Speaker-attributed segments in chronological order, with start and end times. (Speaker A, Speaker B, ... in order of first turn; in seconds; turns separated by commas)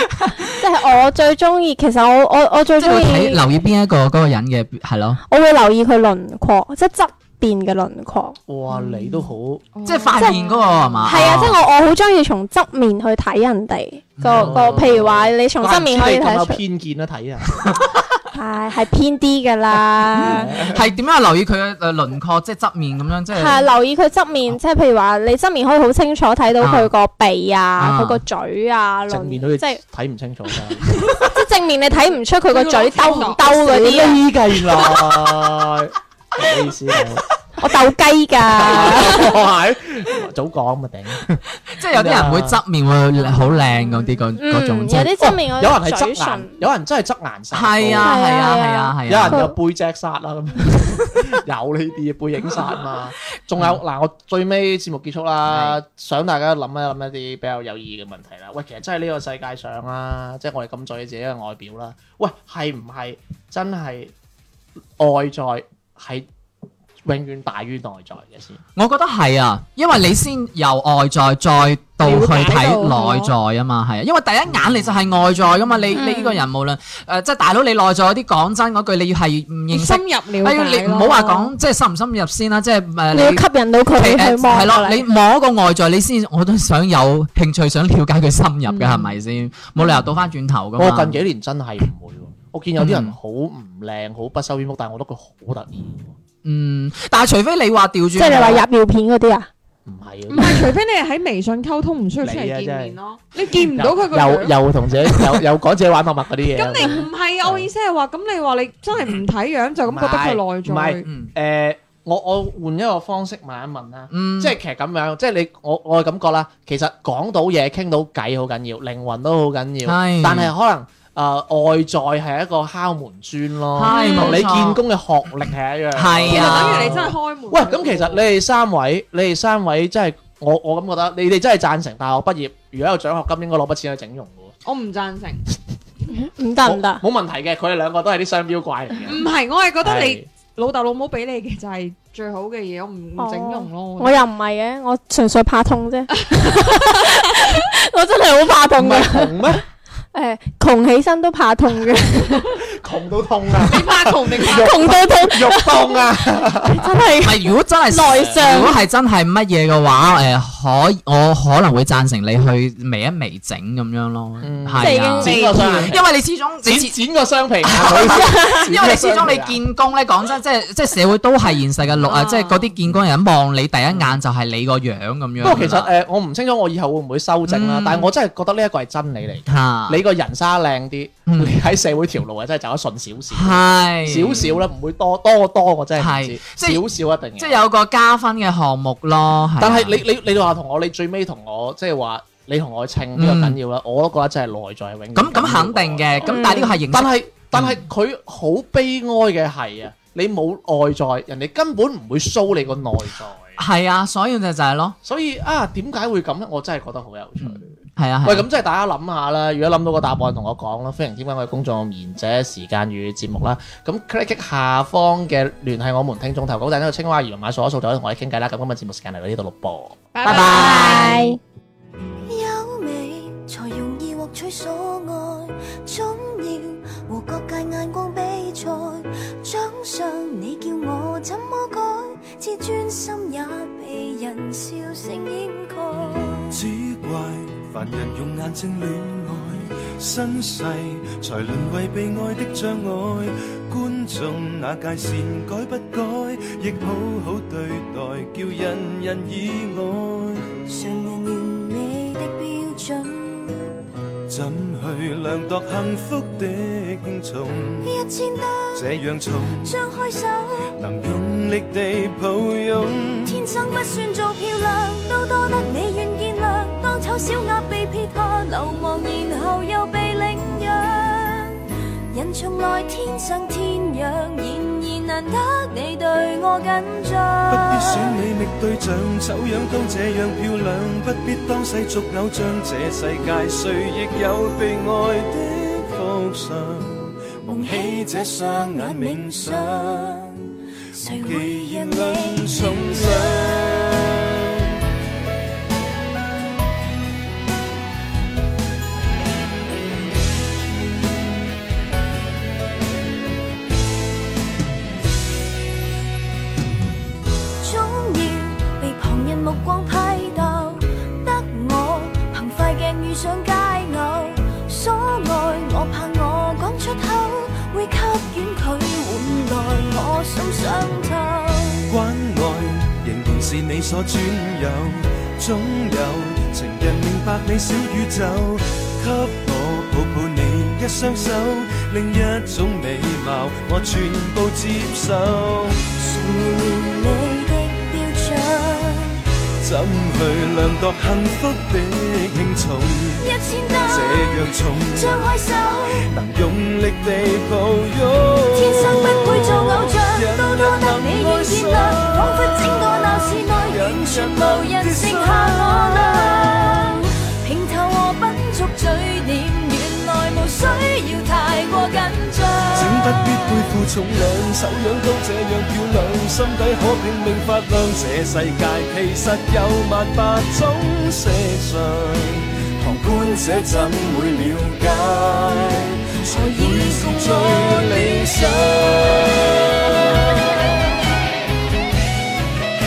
Speaker A: 0.2-0.5, Speaker B: 0.6-3.4, Speaker A: 2.8-5.2, Speaker B: 5.3-8.4, Speaker C: 8.5-9.6, Speaker D: 8.7-11.2, Speaker A: 9.8-11.6, Speaker B: 10.2-10.4, Speaker B: 11.1-16.6, Speaker A: 14.2-14.8, Speaker C: 14.2-17.7, Speaker A: 17.6-18.0, Speaker B: 18.3-20.6, Speaker A: 20.1-23.6, Speaker C: 20.2-20.8, Speaker B: 23.3-29.8, Speaker A: 26.6-26.9, Speaker A: 27.8-28.2, Speaker C: 29.1-30.9, Speaker B: 31.2-34.2, Speaker D: 31.9-34.1, Speaker C: 33.6-37.2, Speaker B: 37.6-39.4, Speaker C: 38.4-42.6, Speaker A: 41.7-45.1, Speaker D: 43.2-44.1, Speaker B: 44.4-46.6, Speaker C: 45.2-48.2, Speaker A: 47.5-49.4, Speaker B: 48.0-49.5, Speaker C: 49.1-64.1, Speaker A: 55.5-55.8, Speaker C: 65.0-66.3, Speaker C: 67.0-68.6, Speaker A: 68.8-91.2, Speaker D: 72.0-73.3, Speaker C: 74.5-74.9, Speaker B: 76.0-76.3, Speaker D: 79.7-81.5, Speaker B: 83.1-85.0, Speaker D: 88.7-89.2, Speaker C: 90.8-96.2, Speaker A: 92.8-93.2, Speaker A: 96.4-98.6, Speaker B: 98.1-99.5, Speaker C: 99.8-100.7, Speaker D: 100.3-105.3, Speaker C: 102.2-102.9, Speaker C: 103.5-107.7, Speaker D: 106.5-111.0, Speaker C: 109.9-134.5, Speaker A: 114.1-114.5, Speaker A: 119.8-120.5, Speaker A: 123.8-124.8, Speaker D: 123.9-124.4, Speaker A: 125.9-127.0, Speaker D: 126.2-128.3, Speaker D: 134.6-135.4, Speaker B: 136.1-137.0, Speaker C: 136.6-139.2, Speaker D: 139.0-144.2, Speaker C: 139.8-140.2, Speaker B: 143.2-149.5, Speaker D: 146.2-147.6, Speaker C: 148.8-149.6, Speaker B: 150.1-152.6, Speaker C: 152.2-156.9, Speaker D: 153.6-155.0, Speaker B: 154.4-158.8, Speaker A: 157.2-166.9, Speaker C: 164.4-166.1, Speaker B: 164.8-165.9, Speaker C: 166.6-169.6, Speaker A: 167.6-175.9, Speaker B: 168.2-168.6, Speaker D: 172.1-172.7, Speaker C: 175.4-187.6, Speaker A: 177.5-178.1, Speaker A: 179.5-180.0, Speaker A: 181.3-181.6, Speaker A: 183.3-184.6, Speaker A: 186.0-186.8, Speaker A: 187.4-190.0, Speaker C: 189.6-203.5, Speaker A: 193.2-193.6, Speaker A: 195.1-197.8, Speaker B: 196.2-196.8, Speaker A: 203.6-204.9, Speaker C: 205.0-207.7, Speaker A: 207.4-208.4, Speaker C: 208.2-219.9, Speaker D: 220.1-221.2, Speaker A: 220.2-221.3, Speaker B: 220.2-221.4, Speaker E: 222.2-236.6, Speaker F: 236.5-250.5, Speaker E: 250.7-253.7, Speaker F: 254.3-257.9, Speaker E: 257.8-258.9, Speaker F: 258.7-259.8, Speaker E: 259.6-260.7, Speaker F: 260.7-263.4, Speaker E: 263.2-278.1, Speaker F: 277.5-290.3, Speaker E: 287.5-290.4, Speaker F: 291.0-294.4, Speaker E: 291.0-294.0, Speaker E: 307.6-321.9, Speaker F: 321.9-335.8, Speaker E: 335.9-339.2, Speaker F: 339.6-356.8, Speaker E: 343.2-346.0, Speaker E: 348.5-363.4, Speaker F: 362.7-380.1, Speaker E: 372.9-380.0